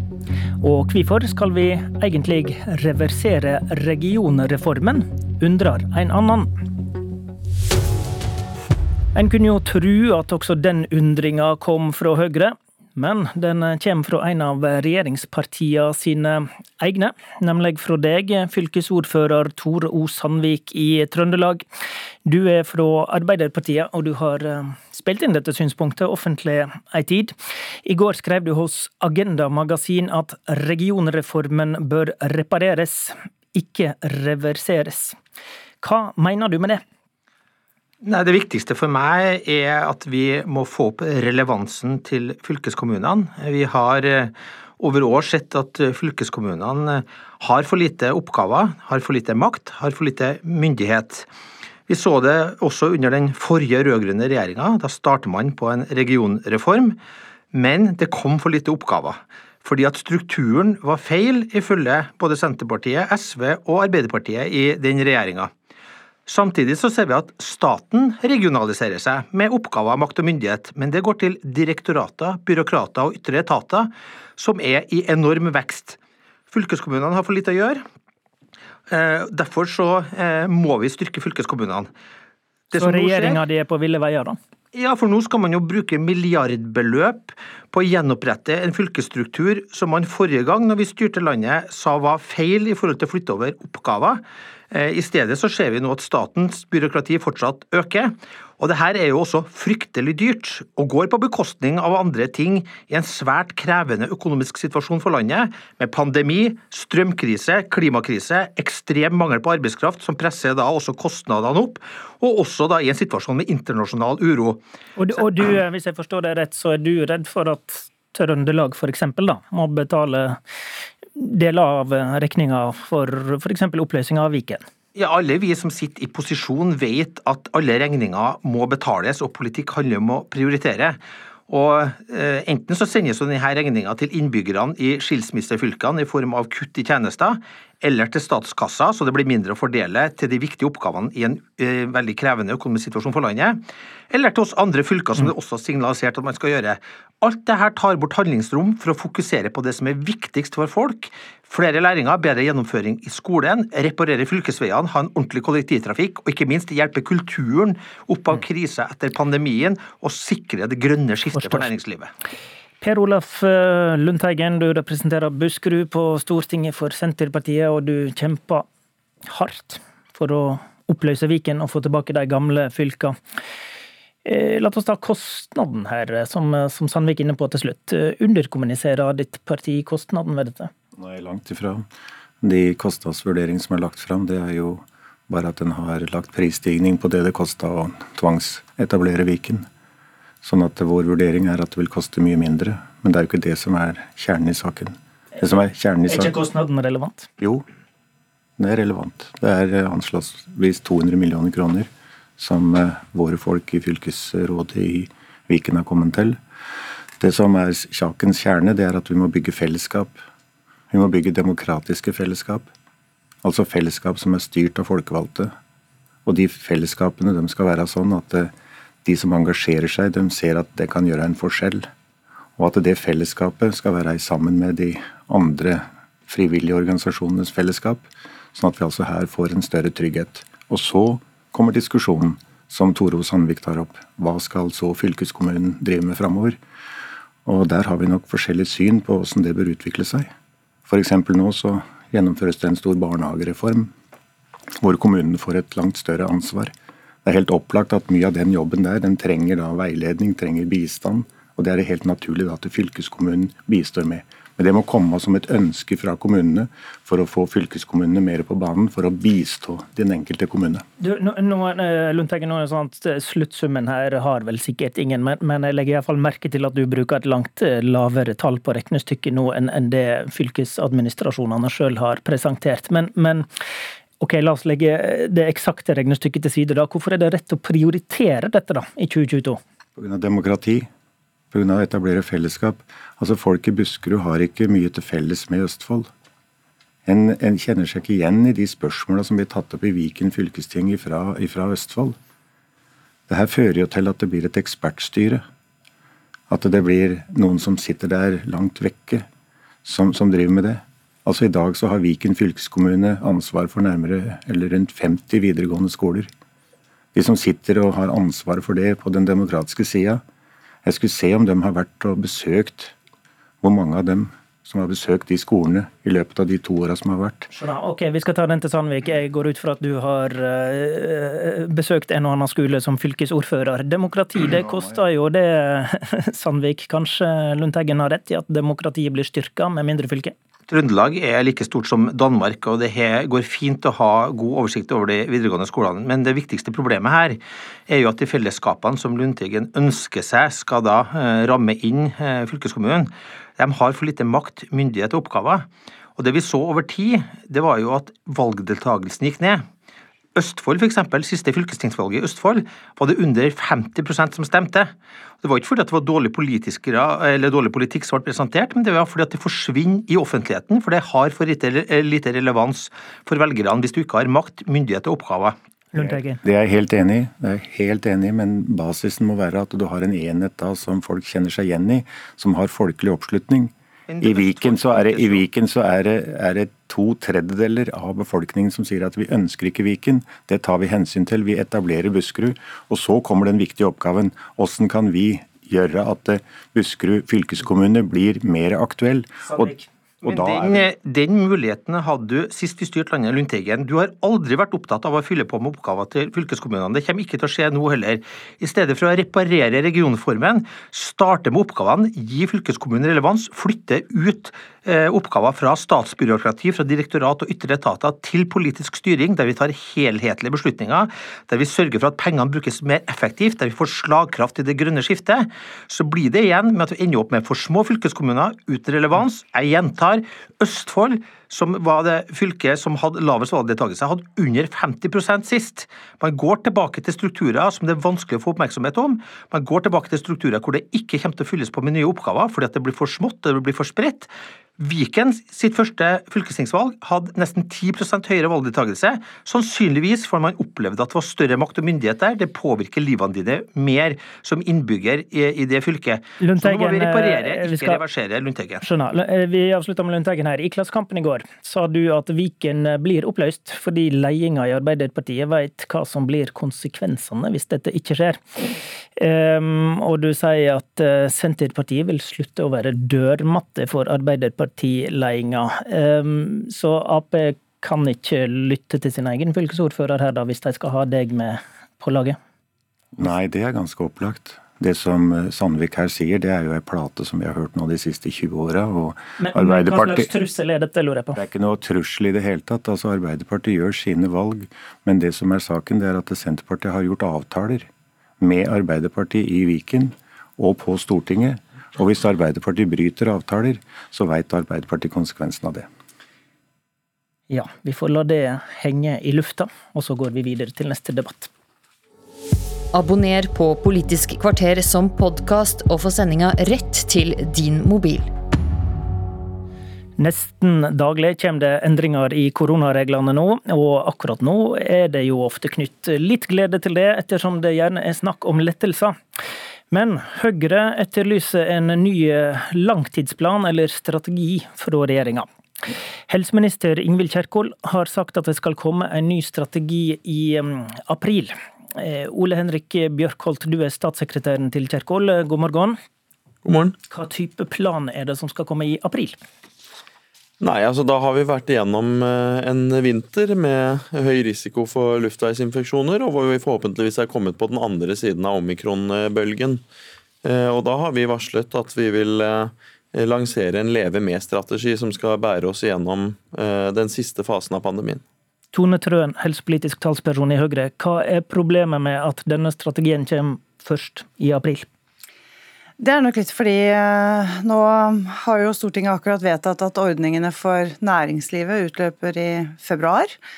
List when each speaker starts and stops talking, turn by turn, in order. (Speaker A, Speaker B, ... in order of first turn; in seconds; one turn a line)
Speaker A: 0.6-6.6
Speaker A: 9.2-21.6
Speaker A: 22.2-35.2
Speaker A: 35.8-36.8
Speaker B: 38.0-51.3
Speaker B: 51.9-57.0
Speaker B: 57.5-65.5
Speaker B: 66.3-76.0
Speaker B: 76.5-77.8
Speaker B: 78.9-81.9
Speaker B: 82.7-83.4
Speaker A: 82.8-84.4
Speaker B: 84.7-115.5
Speaker A: 115.0-120.4
Speaker A: 121.2-124.6
Speaker B: 125.0-131.0
Speaker B: 131.5-162.1
Speaker A: 161.3-161.7
Speaker A: 162.8-168.7
Speaker A: 169.3-173.2
Speaker A: 174.2-180.7
Speaker C: 181.0-181.9
Speaker C: 182.4-189.7
Speaker C: 190.4-196.3
Speaker A: 196.1-197.3
Speaker C: 197.4-197.7
Speaker C: 198.6-206.4
Speaker C: 207.2-210.2
Speaker C: 210.9-212.7
Speaker C: 213.4-215.5
Speaker C: 216.2-218.5
Speaker C: 219.0-221.9
Speaker C: 222.6-236.6
Speaker C: 237.4-240.3
Speaker C: 240.9-243.9
Speaker C: 244.8-246.7
Speaker C: 247.2-260.9
Speaker A: 261.0-273.5
Speaker A: 274.2-279.6
Speaker C: 280.0-280.9
Speaker C: 281.5-286.1
Speaker C: 287.1-292.2
Speaker C: 293.3-295.4
Speaker C: 296.5-299.3
Speaker C: 299.8-306.3
Speaker C: 307.1-310.2
Speaker C: 310.9-312.9
Speaker C: 313.6-317.5
Speaker A: 317.5-330.3
Speaker C: 324.7-325.0
Speaker B: 330.7-349.6
Speaker B: 350.4-365.6
Speaker A: 365.9-366.4
Speaker C: 366.0-390.9
Speaker B: 374.1-375.5
Speaker B: 390.2-448.8
Speaker A: 446.4-448.0
Speaker A: 448.8-472.4
Speaker C: 473.2-480.3
Speaker A: 479.4-481.4
Speaker C: 481.3-487.9
Speaker C: 488.4-495.9
Speaker A: 497.5-501.5
Speaker D: 502.9-508.3
Speaker A: 510.2-519.2
Speaker A: 519.9-536.0
Speaker E: 536.6-537.0
Speaker A: 537.1-539.4
Speaker E: 540.6-549.8
Speaker E: 550.4-558.2
Speaker A: 558.7-564.9
Speaker F: 566.0-573.3